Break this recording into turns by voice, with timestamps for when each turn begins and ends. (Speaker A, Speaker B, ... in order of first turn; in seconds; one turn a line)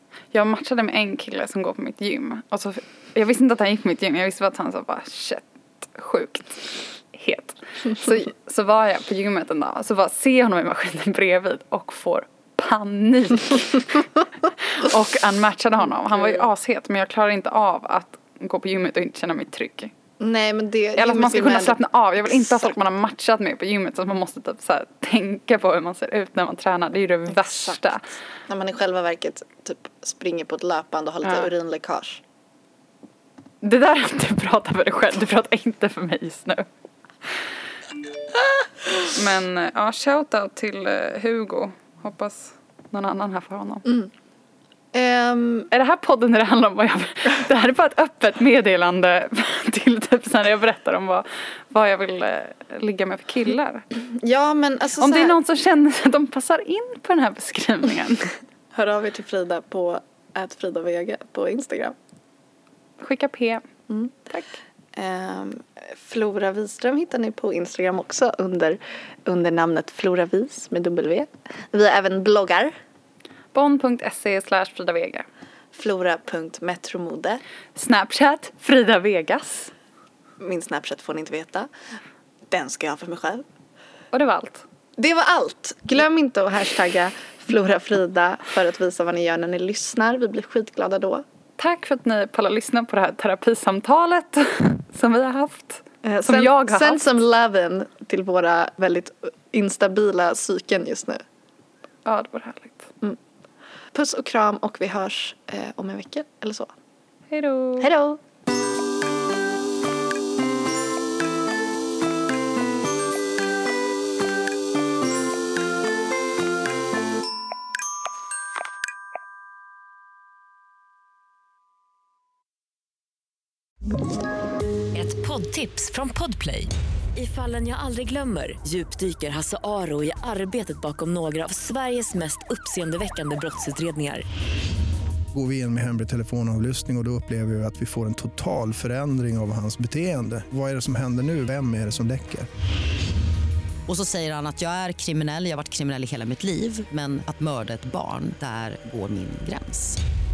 Speaker A: 0.3-19.9
Speaker B: 16.0-16.5
Speaker B: 20.2-22.7
Speaker A: 21.0-28.1
Speaker B: 27.3-27.9
Speaker B: 28.4-32.2
Speaker A: 31.2-31.5
Speaker A: 33.6-36.7
Speaker A: 39.1-43.9
Speaker B: 44.9-45.7
Speaker A: 45.7-53.9
Speaker B: 53.9-55.4
Speaker A: 55.0-58.3
Speaker B: 58.7-62.0
Speaker A: 63.0-63.7
Speaker B: 63.9-64.1
Speaker A: 64.3-64.6
Speaker B: 64.9-72.7
Speaker A: 73.5-75.3
Speaker B: 75.7-77.4
Speaker A: 77.8-79.7
Speaker B: 80.4-81.7
Speaker B: 82.5-83.5
Speaker A: 84.1-84.7
Speaker B: 85.0-91.2
Speaker A: 91.6-97.2
Speaker B: 96.0-101.2
Speaker A: 102.0-102.9
Speaker B: 103.9-106.7
Speaker A: 107.3-107.9
Speaker B: 107.8-108.2
Speaker C: 124.9-134.2
Speaker D: 135.3-142.5
Speaker E: 143.9-150.0